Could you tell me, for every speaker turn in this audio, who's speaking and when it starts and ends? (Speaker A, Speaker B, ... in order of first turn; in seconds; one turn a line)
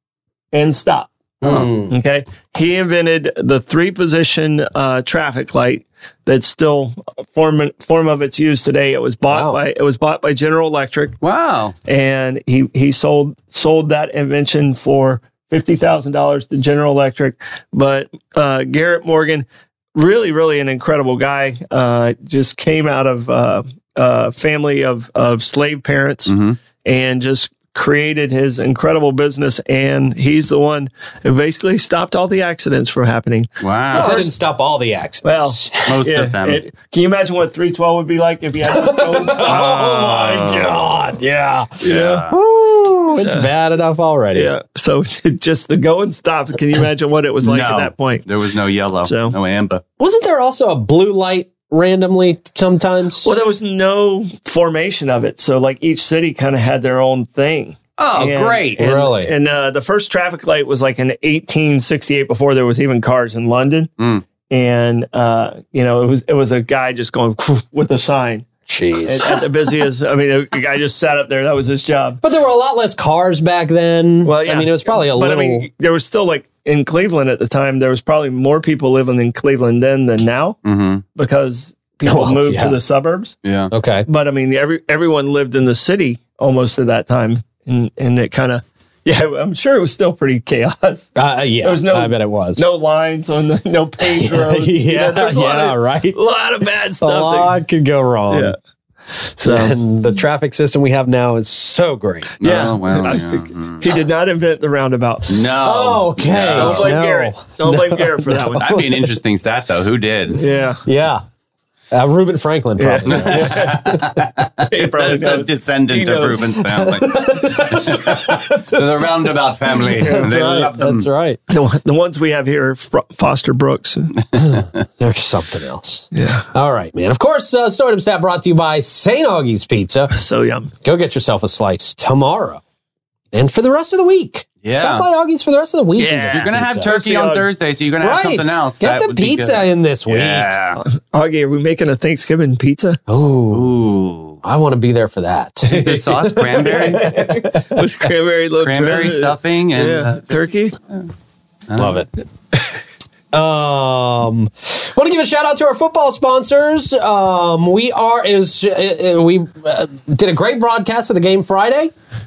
Speaker A: 0.5-11.2
Speaker B: 1.4-1.9
Speaker B: 9.3-9.6
Speaker C: 11.2-11.7
Speaker A: 11.8-34.3
Speaker C: 26.2-26.6
Speaker C: 33.6-34.2
Speaker B: 33.9-35.8
Speaker A: 35.2-40.9
Speaker C: 35.8-36.6
Speaker B: 38.7-44.5
Speaker C: 41.8-42.3
Speaker A: 41.8-42.2
Speaker A: 43.1-43.5
Speaker A: 44.3-48.2
Speaker C: 47.4-49.8
Speaker A: 49.0-49.3
Speaker B: 50.0-53.3
Speaker A: 53.2-63.9
Speaker C: 58.0-58.9
Speaker B: 58.8-59.3
Speaker A: 64.5-68.5
Speaker B: 68.7-69.4
Speaker A: 69.0-72.2
Speaker B: 72.2-75.7
Speaker A: 74.2-80.6
Speaker C: 80.6-81.0
Speaker A: 81.1-83.3
Speaker B: 82.0-82.8
Speaker C: 83.4-83.7
Speaker B: 83.7-84.1
Speaker A: 84.1-97.6
Speaker B: 91.1-92.6
Speaker B: 94.1-96.2
Speaker B: 97.0-98.5
Speaker A: 98.3-98.5
Speaker A: 99.2-99.8
Speaker B: 99.4-102.3
Speaker C: 102.4-103.8
Speaker A: 102.4-105.3
Speaker C: 105.3-107.0
Speaker B: 105.5-109.1
Speaker A: 106.5-108.7
Speaker C: 108.6-110.4
Speaker A: 110.3-110.8
Speaker B: 110.8-111.2
Speaker B: 111.9-114.2
Speaker A: 112.8-114.0
Speaker C: 113.0-121.1
Speaker A: 114.7-116.5
Speaker B: 116.6-119.2
Speaker B: 119.9-121.4
Speaker A: 120.0-120.4
Speaker A: 121.5-124.2
Speaker B: 124.3-130.1
Speaker A: 126.1-126.5
Speaker A: 130.1-130.7
Speaker B: 130.8-132.6
Speaker B: 133.3-136.9
Speaker C: 134.6-135.0
Speaker A: 136.0-137.4
Speaker C: 136.3-140.8
Speaker B: 138.0-140.5
Speaker A: 140.8-143.0
Speaker B: 143.1-143.8
Speaker C: 143.5-144.4
Speaker B: 144.4-147.8
Speaker C: 145.6-147.1
Speaker A: 146.6-150.8
Speaker C: 148.5-151.0
Speaker C: 151.7-152.0
Speaker B: 151.7-152.1
Speaker B: 153.3-161.9